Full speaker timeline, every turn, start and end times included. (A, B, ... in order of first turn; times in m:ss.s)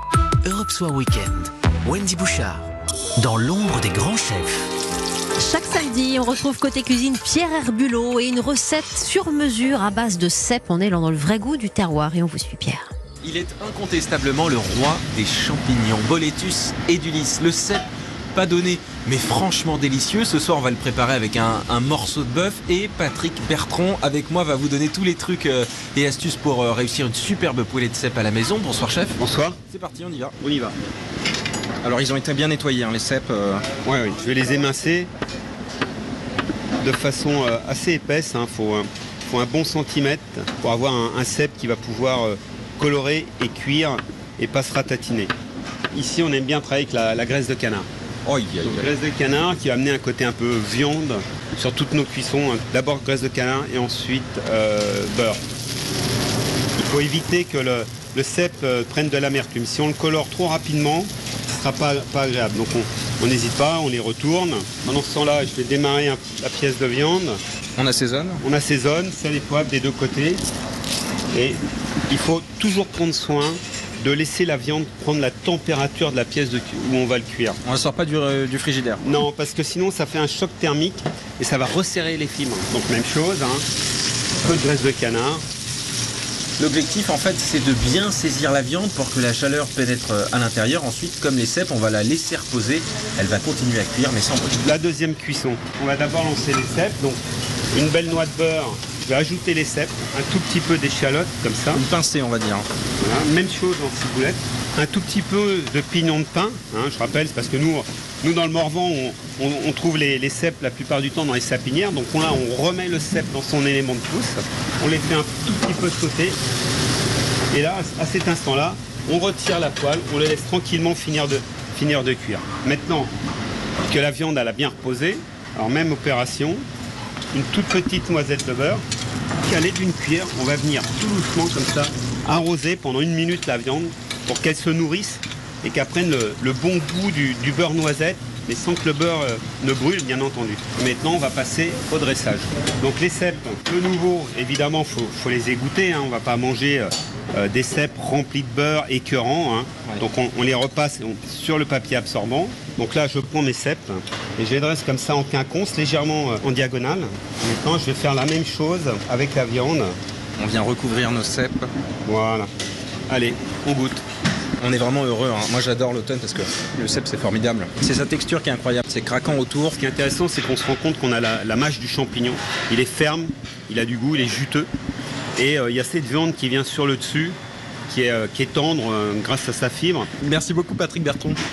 0:00.4-0:04.7 A
0:05.4-0:12.9 B
0:13.2-0:29.2 C
0:29.2-0:29.6 D
0:29.7-0:30.3 C
0:30.4-0:30.7 D
0:31.8-0:33.6 C
0:33.8-0:35.1 D
0:36.8-0:45.3 D
0:45.9-0:47.9 D
0:48.2-0:48.9 C
0:48.6-0:55.4 D
0:56.8-1:07.4 D
1:07.8-1:08.4 C
1:08.4-1:10.4 D
1:11.3-1:17.6 D
1:17.6-1:19.0 C
1:19.0-1:23.6 D
1:24.4-1:25.4 D
1:26.6-1:34.6 C
1:34.6-1:37.2 D
1:37.7-1:41.8 D
1:41.7-1:42.7 C
1:43.0-1:56.4 D
1:57.5-2:03.1 D
2:03.9-2:06.6 D
2:07.3-2:08.8 D
2:09.4-2:39.9 D
2:40.4-2:41.7 C
2:42.0-2:42.5 D
2:43.1-2:44.0 D
2:44.6-2:49.8 C
2:49.8-2:54.7 D
2:55.4-2:57.4 D
2:57.9-3:00.1 D
3:00.2-3:01.4 C